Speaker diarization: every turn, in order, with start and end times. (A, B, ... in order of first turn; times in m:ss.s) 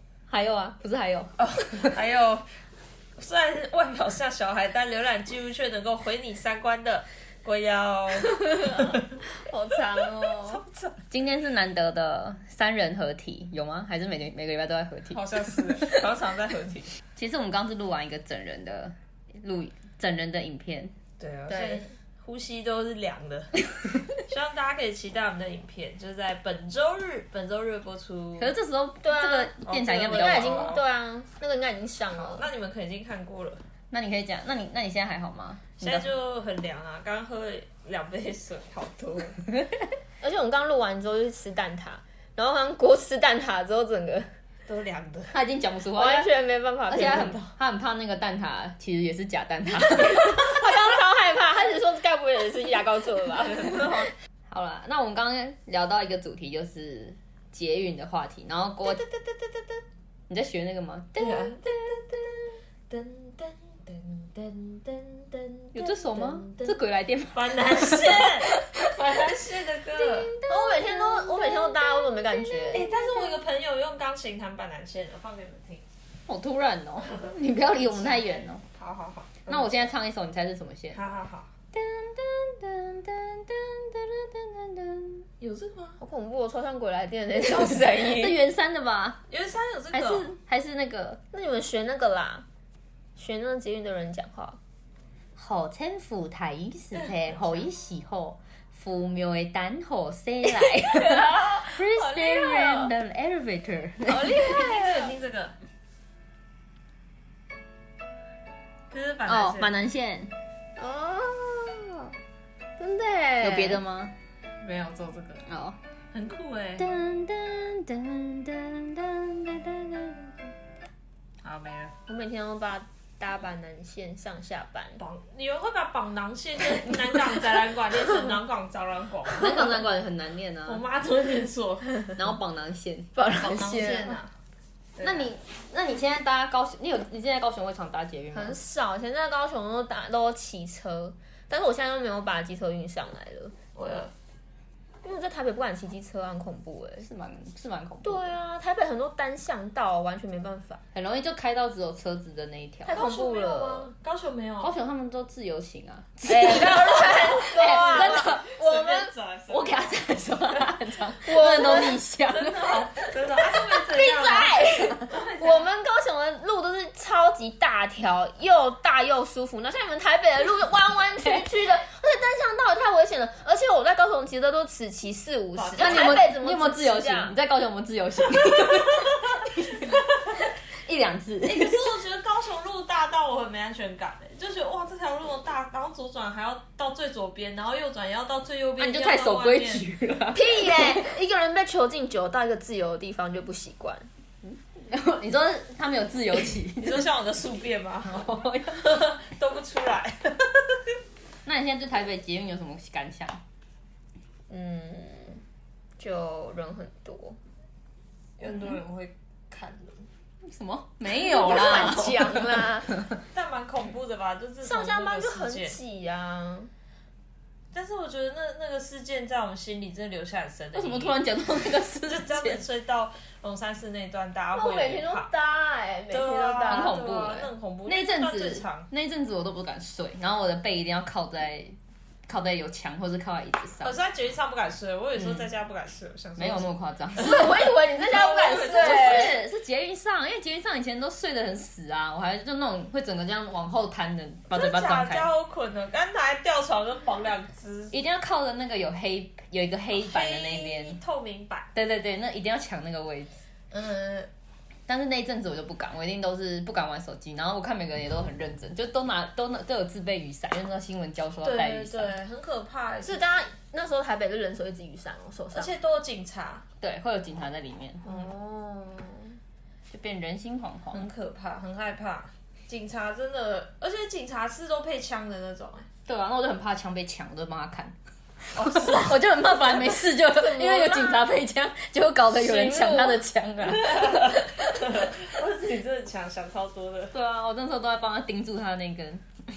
0:00.3-0:01.9 A
0:01.4-0:02.4 B
0:03.2-0:09.1 B
0:08.7-0:10.6 C
0:10.3-0:11.0 B
0:11.1-0:16.0 A
0:15.1-0:16.9 B
0:17.2-0:21.0 A
0:21.2-0:28.5 B
0:21.5-0:21.8 C
0:28.4-0:30.8 A
0:29.0-0:29.5 C
0:29.6-0:30.8 B
0:30.1-0:32.5 C
0:32.1-0:33.6 B
0:33.9-0:36.1 A
0:35.8-0:39.4 B
0:40.2-0:44.3 C
0:44.7-0:45.3 B
0:45.3-0:46.3 A
0:45.9-0:47.4 C
0:46.9-0:50.6 A
0:47.0-0:47.4 B
0:49.9-0:53.9 C
0:53.5-0:54.1 B
0:54.5-0:59.0 A
0:58.9-0:59.8 B
1:00.3-1:01.7 A
1:01.2-1:06.8 B
1:05.7-1:09.2 A
1:07.3-1:10.4 B
1:10.3-1:13.3 A
1:10.4-1:12.9 C
1:12.7-1:15.8 B
1:16.3-1:18.6 A
1:17.9-1:19.9 B
1:19.5-1:21.0 A
1:20.9-1:21.5 B
1:21.7-1:25.2 A
1:25.4-1:26.0 B
1:26.0-1:28.4 C
1:27.6-1:29.2 A
1:29.3-1:30.3 B
1:29.9-1:31.2 A
1:31.3-1:32.4 C
1:33.2-1:34.6 C
1:35.4-1:44.4 A
1:36.9-1:37.6 B
1:40.4-1:42.9 C
1:44.0-1:45.1 C
1:44.2-1:45.5 B
1:48.9-1:49.7 B
1:49.3-1:50.3 A
1:50.8-1:52.1 C
1:52.8-1:53.8 C
1:53.4-1:54.1 A
1:54.6-1:55.4 B
1:55.5-1:55.8 A
1:56.1-1:56.9 B
1:56.8-2:00.3 A
2:01.4-2:01.9 B
2:02.1-2:05.0 C
2:05.0-2:09.8 B
2:09.4-2:10.8 A
2:10.7-2:12.3 B
2:12.2-2:14.1 A
2:13.4-2:14.3 B
2:15.0-2:15.3 B
2:15.0-2:18.6 A
2:18.3-2:23.7 C
2:23.8-2:24.1 B
2:25.0-2:27.1 C
2:27.0-2:28.3 A
2:28.0-2:30.8 C
2:30.9-2:33.0 A
2:32.9-2:33.9 C
2:32.9-2:34.7 B
2:34.6-2:38.6 A
2:36.3-2:39.1 C
2:36.6-2:40.7 B
2:39.5-2:43.1 A
2:41.2-2:42.0 C
2:41.4-2:45.6 B
2:43.7-2:57.4 C
2:51.2-2:51.5 A
2:55.5-2:56.2 B
2:55.8-3:01.9 A
3:01.4-3:09.9 B
3:08.8-3:11.0 A
3:10.3-3:14.1 C
3:14.4-3:17.1 A
3:16.8-3:21.0 B
3:18.0-3:18.8 A
3:21.4-3:23.4 A
3:24.5-3:25.4 C
3:26.0-3:27.4 C
3:28.4-3:30.1 B
3:30.4-3:32.6 A
3:31.1-3:32.9 C
3:33.3-3:35.8 B
3:34.6-3:36.7 C
3:37.7-3:41.2 B
3:40.8-3:42.6 A
3:42.1-3:45.3 B
3:44.5-3:46.9 C
3:46.1-3:48.9 B
3:46.7-3:51.8 A
3:52.3-3:54.0 A
3:53.8-3:56.7 B
3:55.2-3:55.4 A
3:56.4-3:57.6 A
3:57.2-3:59.4 C
3:57.4-3:59.4 B
3:58.7-4:05.3 A
4:04.5-4:07.9 B
4:07.9-4:11.0 A
4:09.9-4:11.7 B
4:11.7-4:13.3 A
4:13.7-4:14.3 B
4:14.9-4:22.2 A
4:21.4-4:23.2 B
4:23.0-4:25.8 C
4:25.5-4:26.6 B
4:26.8-4:28.0 A
4:28.0-4:29.4 C
4:29.9-4:31.1 A
4:30.9-4:35.9 B
4:36.1-4:37.9 A
4:38.5-4:45.1 A
4:38.6-4:39.3 B
4:40.2-4:41.3 C
4:42.4-4:43.2 C
4:43.7-4:47.1 B
4:47.1-4:49.3 A